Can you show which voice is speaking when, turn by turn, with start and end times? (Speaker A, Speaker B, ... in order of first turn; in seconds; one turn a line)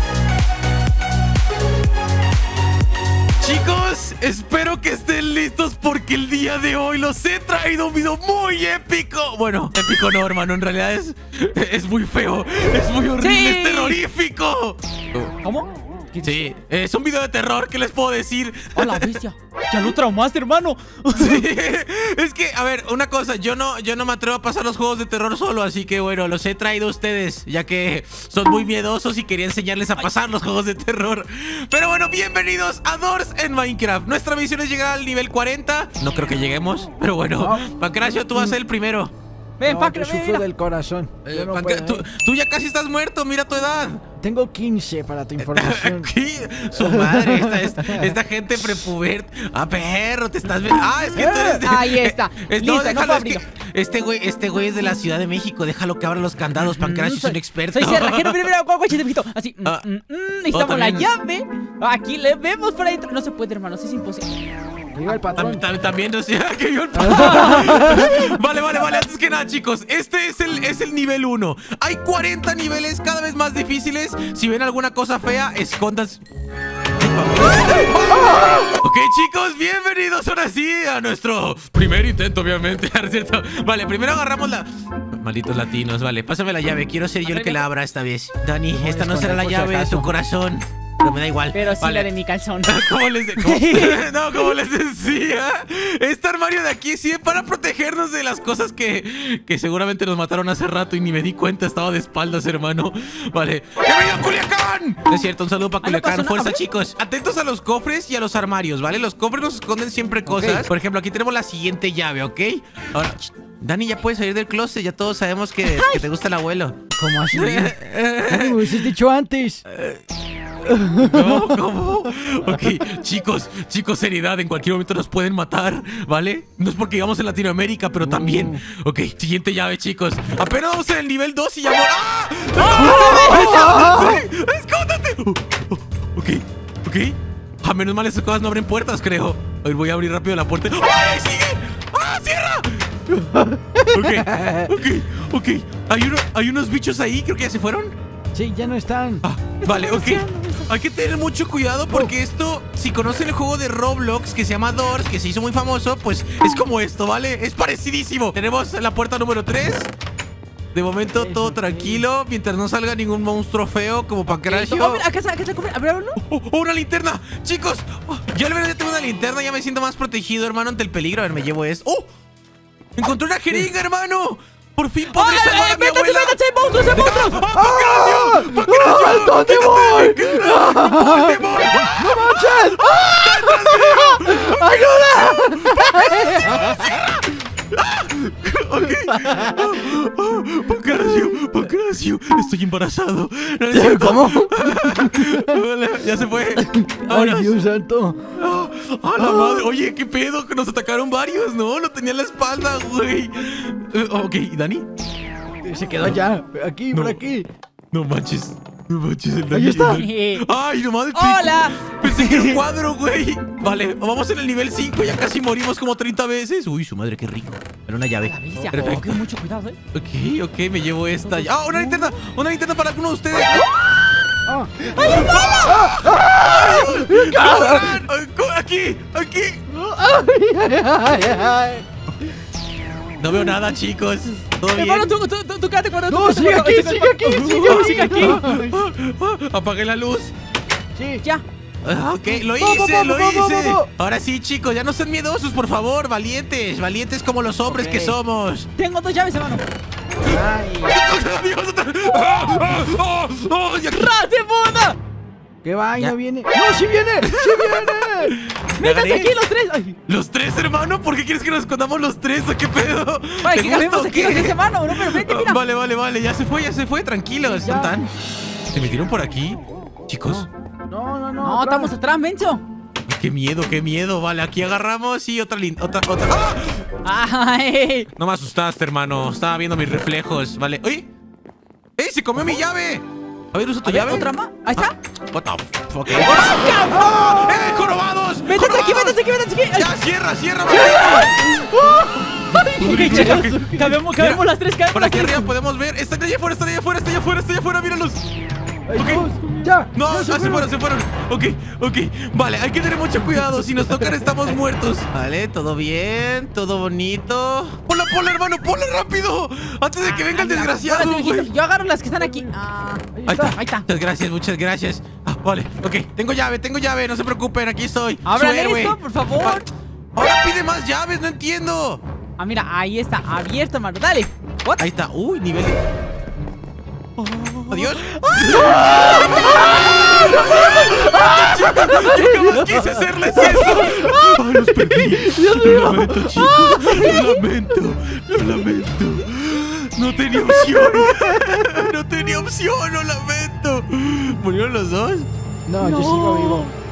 Speaker A: 3.4-15.3
Speaker B: 13.2-14.0
Speaker B: 15.4-16.4
Speaker A: 16.2-19.1
Speaker B: 18.7-21.5
Speaker A: 21.1-39.1
Speaker C: 37.4-37.7
Speaker B: 39.6-40.4
Speaker C: 39.6-42.0
Speaker A: 41.2-44.0
Speaker C: 44.2-46.1
Speaker A: 45.4-58.5
Speaker C: 46.7-48.2
Speaker C: 51.0-51.6
Speaker B: 51.6-53.4
Speaker B: 56.6-64.4
Speaker A: 60.5-61.1
Speaker C: 64.9-65.6
Speaker A: 65.1-76.2
Speaker C: 66.9-68.1
Speaker B: 67.0-68.4
Speaker A: 77.0-92.1
Speaker C: 78.1-78.7
Speaker B: 87.2-87.6
Speaker C: 88.8-90.1
Speaker B: 91.5-94.5
Speaker A: 92.7-116.8
Speaker B: 105.8-106.6
Speaker C: 110.2-110.7
Speaker B: 115.6-116.0
Speaker C: 117.0-119.6
Speaker A: 117.3-118.9
Speaker A: 119.7-120.0
Speaker C: 120.6-121.6
Speaker A: 120.9-143.0
Speaker C: 122.5-122.9
Speaker C: 128.0-128.6
Speaker B: 132.6-133.6
Speaker C: 133.3-134.2
Speaker C: 143.1-144.7
Speaker A: 143.9-147.9
Speaker C: 148.3-149.2
Speaker A: 149.2-159.9
Speaker B: 149.6-150.7
Speaker A: 160.7-165.0
Speaker C: 161.1-162.0
Speaker B: 164.4-166.2
Speaker A: 166.2-172.1
Speaker A: 172.9-197.5
Speaker B: 175.1-177.4
Speaker C: 177.5-186.8
Speaker C: 189.0-189.8
Speaker C: 193.7-195.6
Speaker C: 196.5-198.3
Speaker A: 198.3-204.9
Speaker C: 199.2-199.7
Speaker C: 205.6-207.5
Speaker A: 206.9-207.2
Speaker A: 207.9-219.2
Speaker C: 209.5-210.0
Speaker B: 209.8-210.4
Speaker B: 211.1-212.6
Speaker B: 218.2-219.8
Speaker A: 219.9-224.4
Speaker B: 221.2-221.5
Speaker C: 224.5-225.0
Speaker A: 224.9-229.7
Speaker B: 224.9-225.9
Speaker C: 225.7-228.0
Speaker C: 229.7-231.8
Speaker A: 233.2-235.1
Speaker B: 234.7-238.5
Speaker C: 236.1-238.7
Speaker A: 237.6-240.3
Speaker C: 240.9-241.2
Speaker A: 241.8-248.7
Speaker C: 242.2-243.9
Speaker C: 247.7-248.2
Speaker B: 248.8-249.6
Speaker C: 250.2-251.0
Speaker A: 250.9-254.1
Speaker B: 253.8-255.0
Speaker C: 255.6-258.3
Speaker A: 257.2-259.3
Speaker B: 258.8-260.0
Speaker A: 260.1-268.1
Speaker B: 263.4-265.6
Speaker C: 267.5-267.9
Speaker A: 268.7-270.5
Speaker C: 270.2-271.9
Speaker B: 271.4-272.6
Speaker A: 273.1-276.9
Speaker B: 277.0-278.1
Speaker A: 278.1-281.1
Speaker A: 282.0-289.2
Speaker B: 283.8-284.9
Speaker B: 286.1-287.6
Speaker B: 288.4-289.9
Speaker A: 289.7-291.4
Speaker B: 290.7-291.3
Speaker C: 290.8-294.0
Speaker B: 292.5-295.5
Speaker A: 292.6-298.2
Speaker C: 298.9-300.7
Speaker A: 298.9-299.3
Speaker A: 299.9-311.5
Speaker B: 310.0-313.9
Speaker C: 312.2-312.5
Speaker C: 313.1-313.5
Speaker A: 313.2-319.6
Speaker B: 318.2-319.7
Speaker A: 320.1-322.0
Speaker B: 322.4-324.9
Speaker A: 324.8-325.8
Speaker B: 327.2-332.3
Speaker A: 327.7-345.3
Speaker C: 330.9-333.9
Speaker B: 333.3-335.2
Speaker C: 335.0-336.3
Speaker B: 336.3-337.4
Speaker C: 341.1-341.5
Speaker C: 345.7-346.7
Speaker B: 345.8-346.7